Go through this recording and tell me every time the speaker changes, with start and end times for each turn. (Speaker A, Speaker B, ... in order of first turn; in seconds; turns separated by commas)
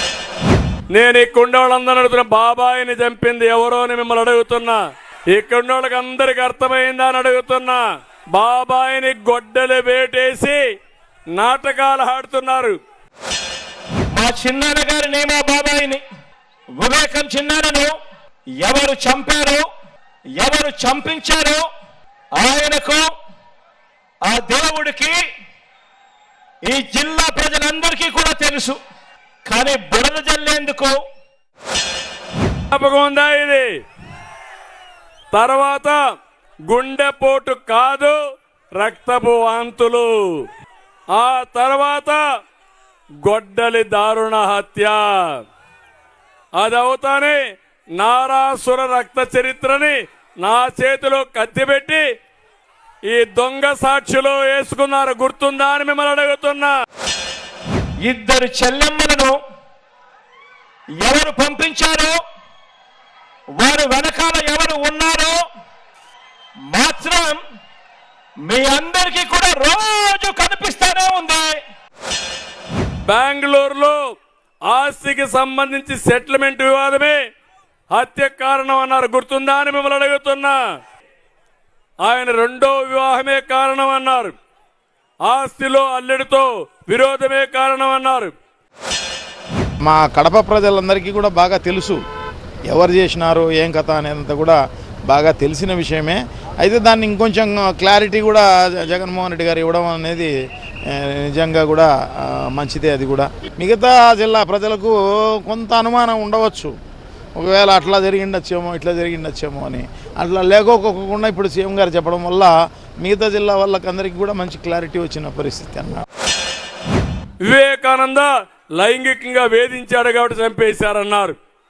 Speaker A: 0.9-4.8, Speaker A: 5.3-7.8, Speaker A: 8.3-10.6, Speaker A: 11.3-12.8, Speaker B: 14.1-16.0, Speaker B: 16.7-17.9, Speaker B: 18.6-19.7, Speaker B: 20.4-21.6, Speaker B: 22.4-23.1, Speaker B: 24.2-25.2, Speaker B: 26.6-28.8, Speaker B: 29.4-31.0, Speaker A: 32.7-33.6, Speaker A: 35.3-36.0, Speaker A: 36.7-38.2, Speaker A: 38.8-40.5, Speaker A: 41.1-42.2, Speaker A: 43.2-45.4, Speaker A: 46.6-47.4, Speaker A: 48.0-52.0, Speaker A: 53.1-56.7, Speaker B: 58.0-59.4, Speaker B: 61.0-62.2, Speaker B: 63.5-65.4, Speaker B: 66.7-67.4, Speaker B: 68.4-71.6, Speaker A: 73.0-74.0, Speaker A: 74.7-77.2, Speaker A: 77.9-80.6, Speaker A: 82.0-84.3, Speaker A: 85.2-88.3, Speaker C: 89.8-92.0, Speaker C: 92.7-94.6, Speaker C: 95.1-100.3, Speaker C: 100.9-106.7, Speaker C: 107.3-116.0, Speaker A: 117.4-121.3